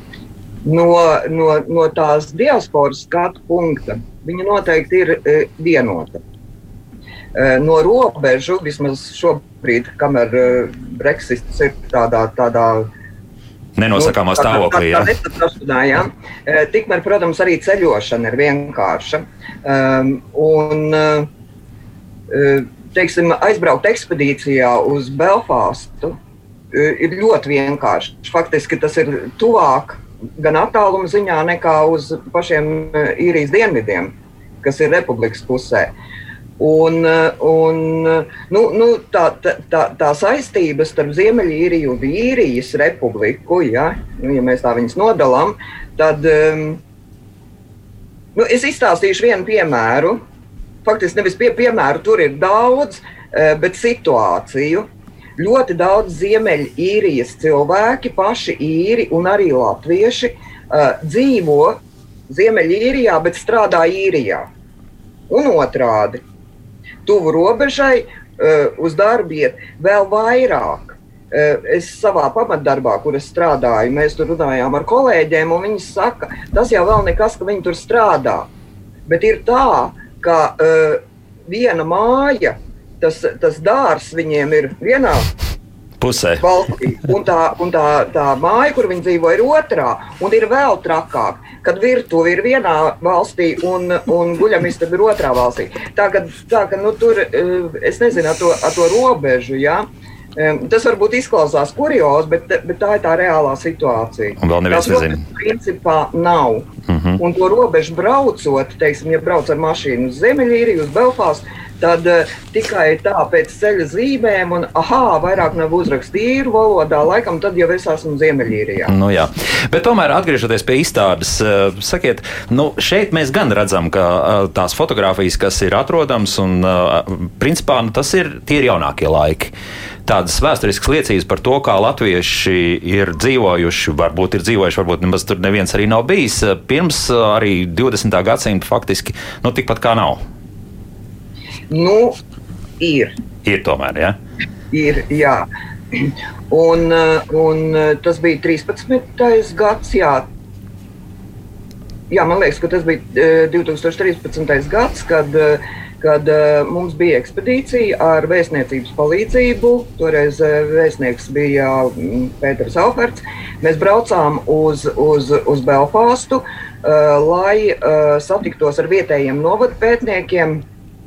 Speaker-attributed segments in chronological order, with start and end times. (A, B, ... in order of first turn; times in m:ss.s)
0:00.6-0:06.2 A
0:07.4-0:12.9 A
0:13.8-0:15.1 B
0:14.0-0:21.3 A
0:22.3-0:26.2 A
0:26.7-0:35.9 A
0:36.6-0:46.8 A
0:48.4-0:50.2 A
0:50.8-0:54.9 A
0:55.4-1:01.8 A
1:02.3-1:04.5 A
1:05.3-1:06.2 A
1:07.0-1:18.5 A
1:19.1-1:25.3 A
1:26.0-1:26.4 B
1:26.4-1:39.8 A
1:40.4-1:46.7 A
1:44.4-1:45.2 B
1:46.9-1:47.2 B
1:47.2-1:58.9 A
1:58.9-2:09.5 B
2:10.1-2:20.2 B
2:21.7-2:22.2 A
2:22.8-2:23.1 A
2:23.4-2:24.2 B
2:24.7-2:30.2 A
2:32.1-2:50.6 A